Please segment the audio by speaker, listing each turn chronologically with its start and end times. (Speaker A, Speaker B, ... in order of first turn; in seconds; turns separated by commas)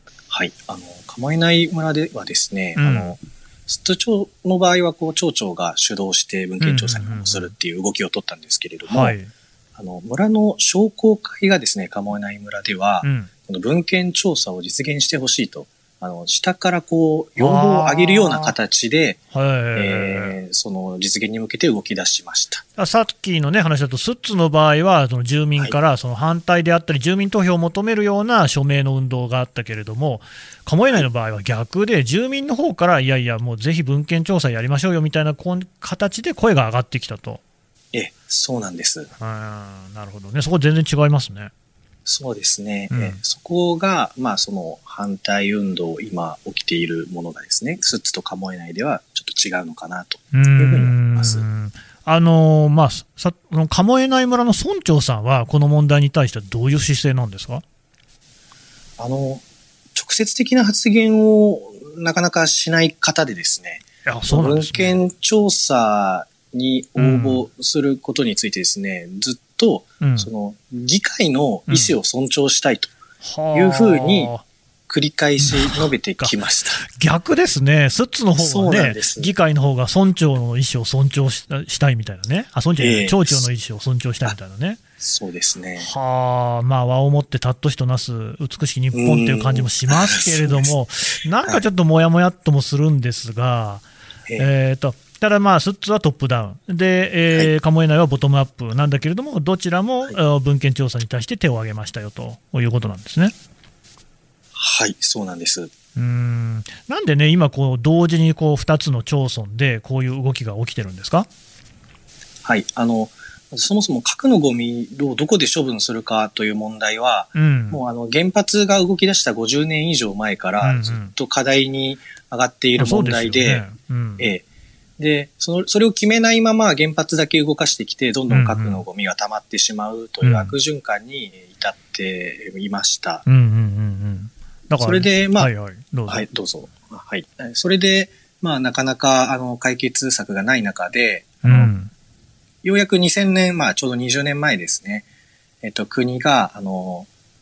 Speaker A: 0.3-9.2, Speaker B: 2.8-3.2, Speaker B: 6.6-7.5, Speaker B: 8.8-9.3, Speaker A: 9.8-19.2, Speaker B: 13.0-13.3, Speaker B: 17.4-18.5, Speaker B: 19.3-20.3, Speaker A: 19.7-22.6, Speaker B: 22.8-37.4, Speaker A: 37.9-39.1, Speaker B: 39.2-41.5, Speaker A: 42.0-51.5, Speaker B: 42.9-43.2, Speaker B: 50.3-57.6, Speaker A: 59.0-59.4, Speaker A: 59.9-72.9, Speaker B: 64.0-65.0, Speaker B: 67.0-67.5, Speaker B: 70.0-70.3, Speaker B: 71.7-71.9, Speaker B: 73.2-74.4, Speaker A: 73.5-74.3, Speaker A: 74.9-76.8, Speaker B: 75.4-84.8, Speaker A: 78.4-79.3, Speaker A: 82.8-83.5, Speaker A: 85.0-85.9, Speaker B: 85.8-93.8, Speaker A: 88.9-90.7, Speaker B: 94.4-103.3, Speaker A: 104.5-105.7, Speaker B: 105.9-111.3, Speaker A: 112.4-123.7, Speaker B: 117.3-117.8, Speaker B: 120.6-121.1, Speaker B: 122.8-124.3, Speaker A: 124.2-124.4, Speaker A: 125.0-133.2, Speaker B: 128.3-128.8, Speaker B: 130.2-130.5, Speaker B: 133.2-136.2, Speaker A: 134.8-135.5, Speaker A: 136.1-141.7, Speaker B: 141.4-141.9, Speaker A: 142.6-145.0, Speaker A: 145.6-147.1